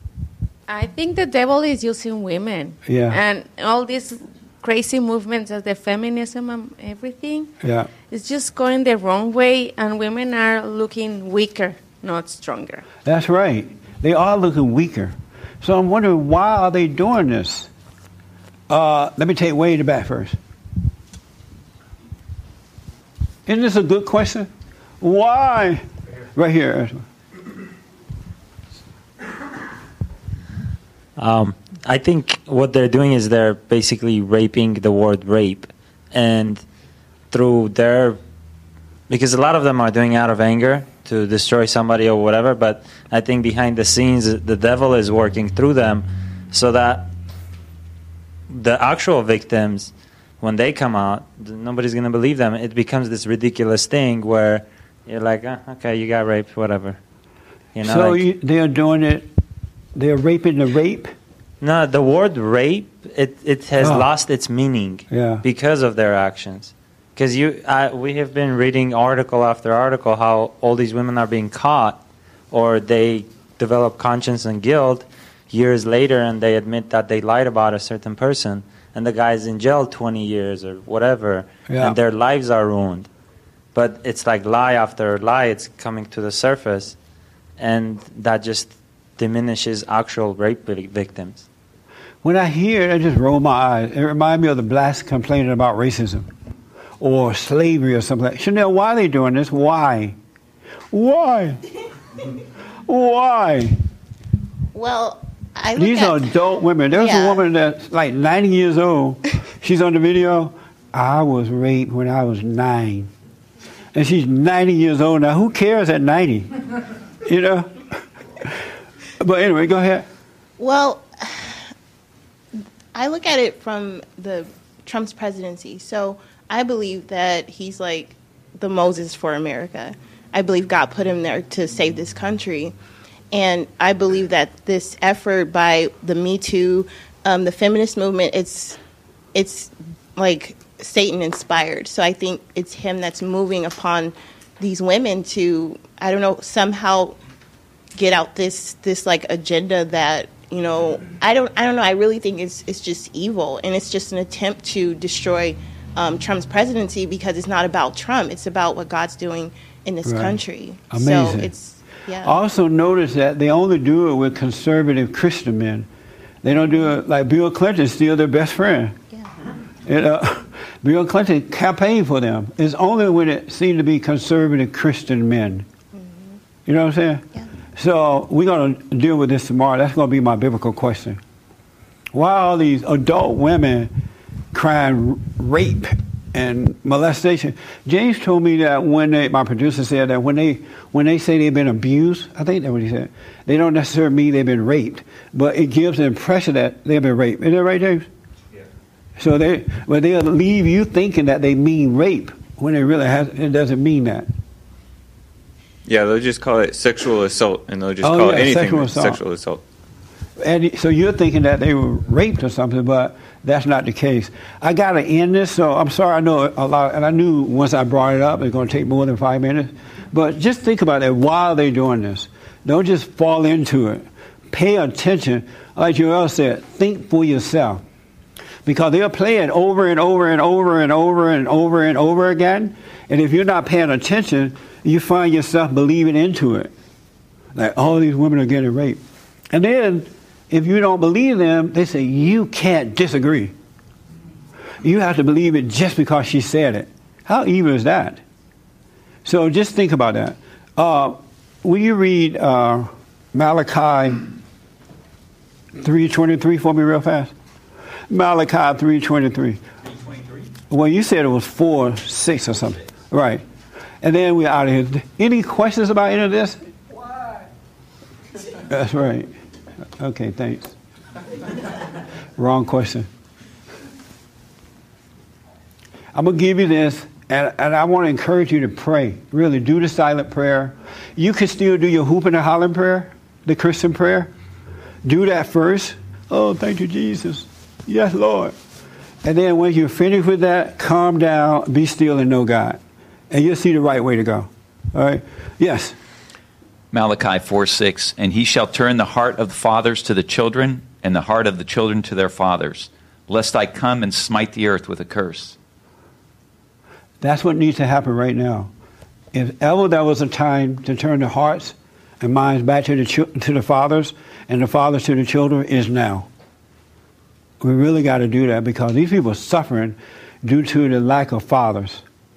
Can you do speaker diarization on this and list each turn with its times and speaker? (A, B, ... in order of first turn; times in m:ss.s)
0:00.7-0:07.5 A
0:02.8-0:03.2 B
0:07.6-0:07.9 B
0:08.1-0:12.8 A
0:13.0-0:17.7 B
0:18.7-0:20.4 B
0:23.5-0:24.5 B
0:25.0-0:25.8 B
0:26.4-0:27.0 B
0:31.2-0:36.6 C
0:37.3-0:38.2 C
0:39.1-0:47.1 C
0:48.5-0:57.0 C
0:57.8-0:58.2 C
0:57.8-0:59.3 B
1:00.0-1:01.1 B
1:01.6-1:12.0 C
1:03.8-1:04.1 B
1:05.1-1:05.4 B
1:12.5-1:23.1 C
1:21.7-1:22.0 B
1:23.8-1:27.0 C
1:27.6-1:31.4 C
1:32.2-1:36.3 B
1:37.0-1:40.2 B
1:40.9-1:41.6 B
1:42.9-1:43.8 B
1:44.7-1:46.4 D
1:45.8-1:53.1 B
1:46.9-1:47.4 D
1:53.9-1:56.5 B
1:57.2-1:57.7 B
1:59.2-2:00.0 B
2:00.6-2:01.6 D
2:02.9-2:12.7 D
2:13.3-2:18.8 D
2:19.3-2:27.2 D
2:28.0-2:42.4 D
2:40.0-2:40.4 B
2:40.9-2:41.5 B
2:42.2-2:45.9 B
2:46.4-2:49.0 B
2:49.9-2:55.7 B
2:55.9-2:56.4 D
2:56.7-2:57.2 B
2:57.8-3:01.2 B
3:02.1-3:03.9 B
3:04.5-3:18.1 B
3:19.2-3:24.3 B
3:25.9-3:29.6 E
3:28.0-3:29.2 B
3:30.4-3:47.8 B
3:48.6-3:56.7 B
3:57.6-4:03.5 B
4:04.8-4:08.2 B
4:09.2-4:14.2 B
4:15.8-4:17.3 B
4:18.1-4:19.6 B
4:20.7-4:23.4 B
4:24.0-4:26.6 B
4:28.6-4:29.3 B
4:30.0-4:30.7 B
4:32.4-4:33.1 B
4:36.1-4:44.3 B
4:45.0-4:48.6 B
4:49.2-4:55.9 B
4:56.9-5:05.6 F
5:07.2-5:08.7 B
5:09.3-5:16.3 B
5:17.6-5:22.0 B